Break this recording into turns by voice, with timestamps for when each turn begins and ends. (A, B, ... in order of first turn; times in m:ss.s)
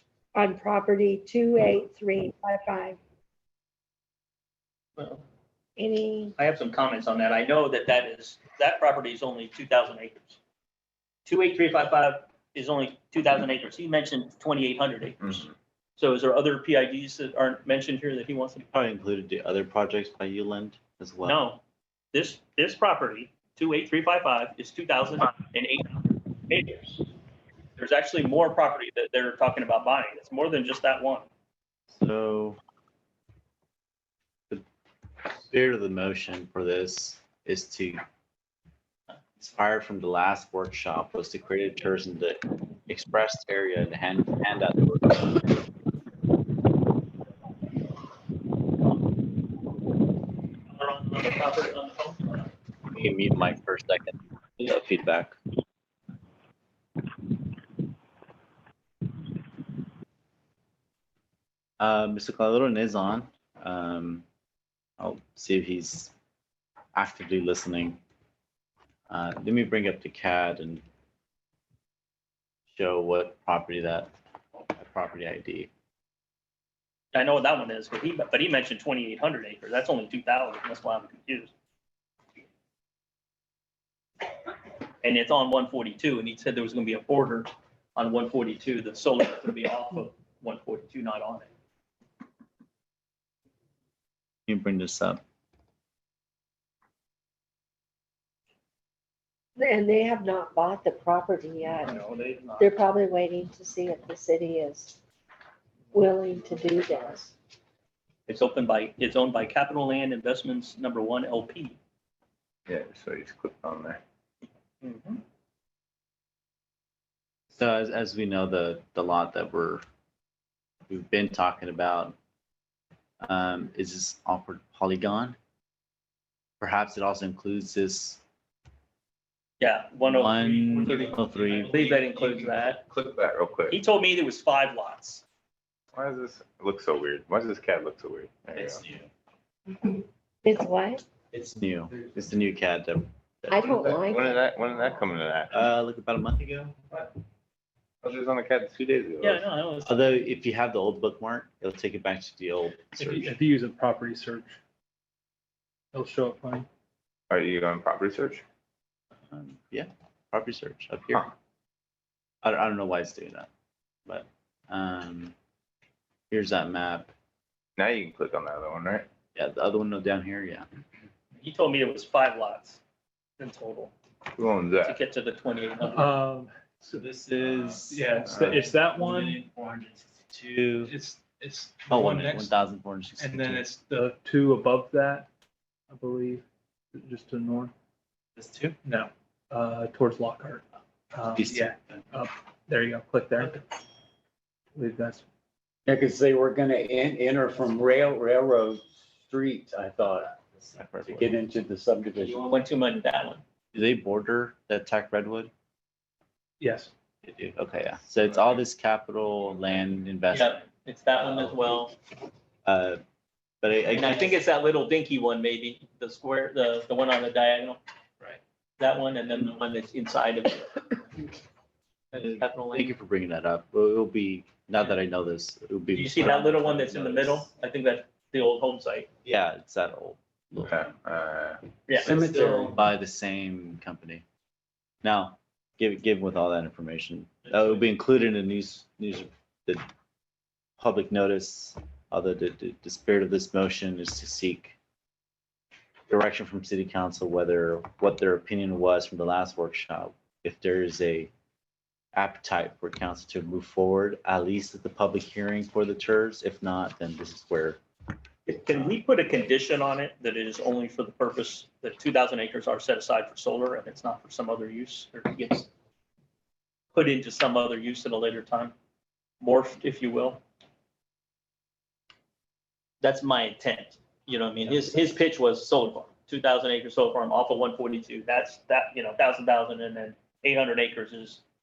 0:00.3-0:03.0 A
0:05.0-0:05.2 B
0:05.8-0:06.4 A
0:06.4-0:10.4 B
0:11.3-0:15.5 B
0:15.2-0:15.5 C
0:16.0-0:18.7 B
0:18.7-0:21.4 D
0:21.2-0:21.6 B
0:22.1-0:27.0 B
0:27.8-0:31.3 B
0:31.9-0:32.6 D
0:35.5-0:38.0 D
0:39.4-0:45.6 D
0:50.7-0:52.5 B
0:52.9-0:55.4 D
1:01.8-1:04.2 D
1:05.0-1:06.1 D
1:06.9-1:08.0 D
1:09.1-1:10.8 D
1:12.7-1:14.1 D
1:14.7-1:15.7 D
1:17.1-1:21.5 B
1:25.0-1:31.5 B
1:34.5-1:35.2 D
1:39.6-1:42.0 A
1:41.8-1:42.7 B
1:42.6-1:45.0 A
1:45.9-1:47.3 A
1:48.3-1:51.8 B
1:52.7-1:54.0 C
1:54.8-1:55.2 B
1:57.6-1:59.8 D
2:00.9-2:02.2 D
2:03.2-2:05.4 D
2:06.6-2:08.2 D
2:09.6-2:12.8 B
2:10.0-2:11.8 D
2:11.8-2:13.8 C
2:13.7-2:15.2 B
2:16.0-2:18.9 C
2:18.6-2:19.0 D
2:19.8-2:21.0 A
2:21.3-2:24.0 D
2:23.5-2:24.4 A
2:23.8-2:25.7 C
2:25.5-2:26.8 D
2:28.0-2:29.5 C
2:29.2-2:30.1 B
2:29.8-2:33.3 D
2:33.0-2:34.6 E
2:35.9-2:36.7 E
2:37.3-2:38.4 C
2:39.3-2:41.3 D
2:42.4-2:43.5 D
2:44.1-2:45.3 D
2:46.3-2:47.1 D
2:47.8-2:49.1 C
2:49.4-2:50.7 D
2:51.4-2:52.8 B
2:53.4-2:53.9 B
2:54.4-2:55.0 C
2:54.8-2:56.1 B
2:55.9-2:57.1 E
2:57.0-2:58.6 D
2:57.7-2:59.4 E
2:58.2-2:58.6 C
2:59.2-3:00.9 D
3:00.8-3:02.5 E
3:01.9-3:03.7 D
3:03.2-3:05.3 E
3:05.9-3:06.4 E
3:06.9-3:07.7 E
3:08.8-3:10.6 E
3:11.1-3:13.6 E
3:11.4-3:11.7 D
3:14.8-3:15.2 E
3:15.9-3:20.3 F
3:20.6-3:21.4 D
3:21.2-3:22.4 F
3:22.4-3:23.4 B
3:23.7-3:25.5 D
3:26.6-3:26.9 E
3:27.2-3:30.6 D
3:30.3-3:32.0 B
3:32.6-3:33.0 D
3:33.6-3:34.4 D
3:33.9-3:41.1 B
3:42.1-3:43.0 B
3:42.2-3:47.5 D
3:45.9-3:49.1 B
3:49.2-3:50.9 D
3:50.6-3:51.6 C
3:51.9-3:52.8 B
3:52.0-3:54.2 D
3:52.0-3:52.8 F
3:55.0-3:59.9 D
4:00.8-4:04.8 D
4:06.1-4:11.3 D
4:12.1-4:17.8 D
4:18.5-4:25.7 B
4:18.7-4:19.6 D
4:27.0-4:28.7 B
4:29.4-4:30.4 B
4:33.0-4:41.4 B